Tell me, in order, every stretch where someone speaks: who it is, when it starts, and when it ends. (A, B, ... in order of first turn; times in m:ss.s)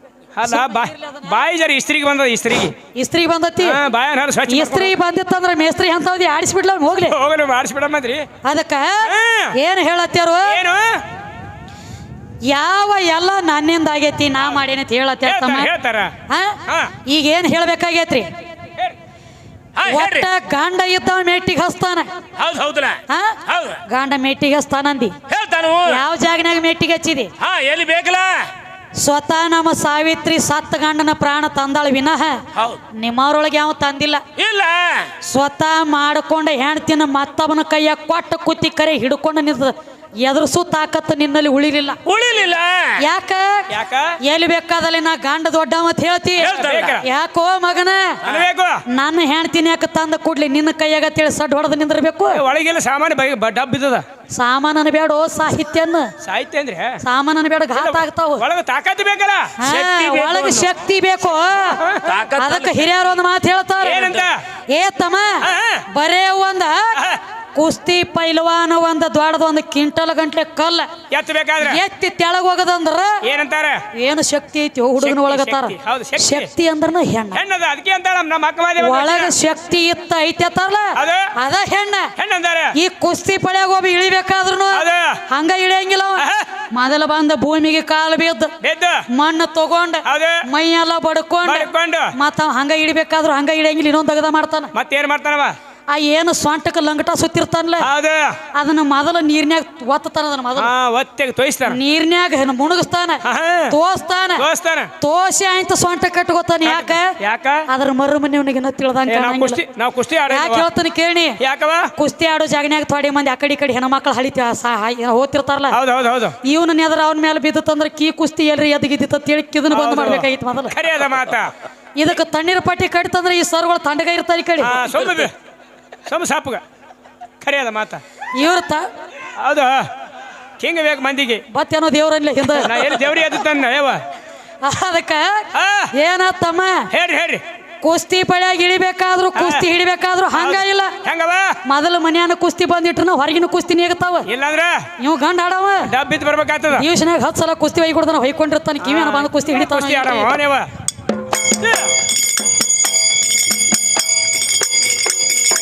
0:00.3-0:02.8 A
0:00.5-0:01.3 B
0:02.9-0:03.8 B
0:03.6-0:04.9 A
0:04.5-0:07.1 B
0:07.1-0:08.3 A
0:08.4-0:10.6 B
0:09.0-0:09.6 A
0:10.5-0:11.0 A
0:12.4-0:15.7 B
0:15.2-0:16.1 A
0:16.3-0:18.3 B
0:16.7-0:16.9 A
0:19.7-0:20.3 C
0:19.8-0:22.1 B
0:22.4-0:23.8 C
0:23.1-0:25.2 B
0:25.3-0:26.0 C
0:25.8-0:27.3 B
0:27.4-0:28.5 C
0:29.0-0:34.2 B
0:34.4-0:35.1 C
0:35.2-0:42.0 B
0:42.0-0:43.0 C
0:43.0-0:43.7 B
0:43.7-0:44.2 A
0:44.2-0:48.2 B
0:46.4-0:47.0 A
0:46.4-0:47.0 C
0:48.2-0:48.8 A
0:48.9-0:52.4 B
0:52.3-0:54.0 A
0:54.3-0:56.1 B
0:56.2-0:57.0 A
0:57.0-0:58.4 B
0:57.7-0:59.5 A
0:59.6-1:01.8 B
0:59.6-1:00.7 C
1:01.8-1:02.1 A
1:02.0-1:02.9 C
1:02.4-1:04.2 B
1:03.8-1:04.3 A
1:04.7-1:06.9 B
1:05.4-1:05.8 A
1:06.9-1:07.2 A
1:07.5-1:10.9 B
1:11.1-1:11.8 A
1:11.6-1:13.2 B
1:13.2-1:13.8 A
1:13.9-1:17.4 B
1:15.0-1:16.5 A
1:17.3-1:19.3 A
1:18.8-1:22.1 B
1:21.0-1:21.3 A
1:22.2-1:22.8 A
1:22.7-1:28.5 B
1:24.7-1:25.2 A
1:26.2-1:26.6 A
1:28.6-1:29.0 A
1:29.1-1:34.7 B
1:30.0-1:30.4 A
1:31.4-1:32.1 A
1:34.7-1:35.5 A
1:35.9-1:37.9 B
1:37.8-1:38.4 A
1:38.5-1:40.7 B
1:40.6-1:41.8 A
1:41.7-1:44.4 B
1:43.2-1:43.8 A
1:44.4-1:44.9 A
1:45.0-1:47.2 B
1:46.6-1:47.6 A
1:47.7-1:49.6 B
1:49.1-1:50.7 A
1:50.3-1:51.4 B
1:51.4-1:51.9 A
1:51.9-1:55.8 B
1:55.7-1:56.4 A
1:56.4-2:00.7 B
1:59.7-2:01.5 A
2:02.0-2:04.8 B
2:04.6-2:05.3 A
2:06.1-2:06.6 A
2:07.4-2:08.0 A
2:08.3-2:08.9 B
2:09.4-2:09.9 A
2:10.6-2:11.4 A
2:11.5-2:12.8 B
2:12.6-2:14.0 A
2:14.6-2:16.9 B
2:15.5-2:15.9 A
2:16.9-2:17.4 A
2:17.8-2:20.9 B
2:19.3-2:19.6 A
2:20.3-2:21.6 A
2:21.6-2:24.3 B
2:24.3-2:24.9 A
2:25.0-2:25.9 B
2:25.8-2:26.8 A
2:26.7-2:30.3 B
2:28.8-2:30.7 A
2:31.6-2:31.9 A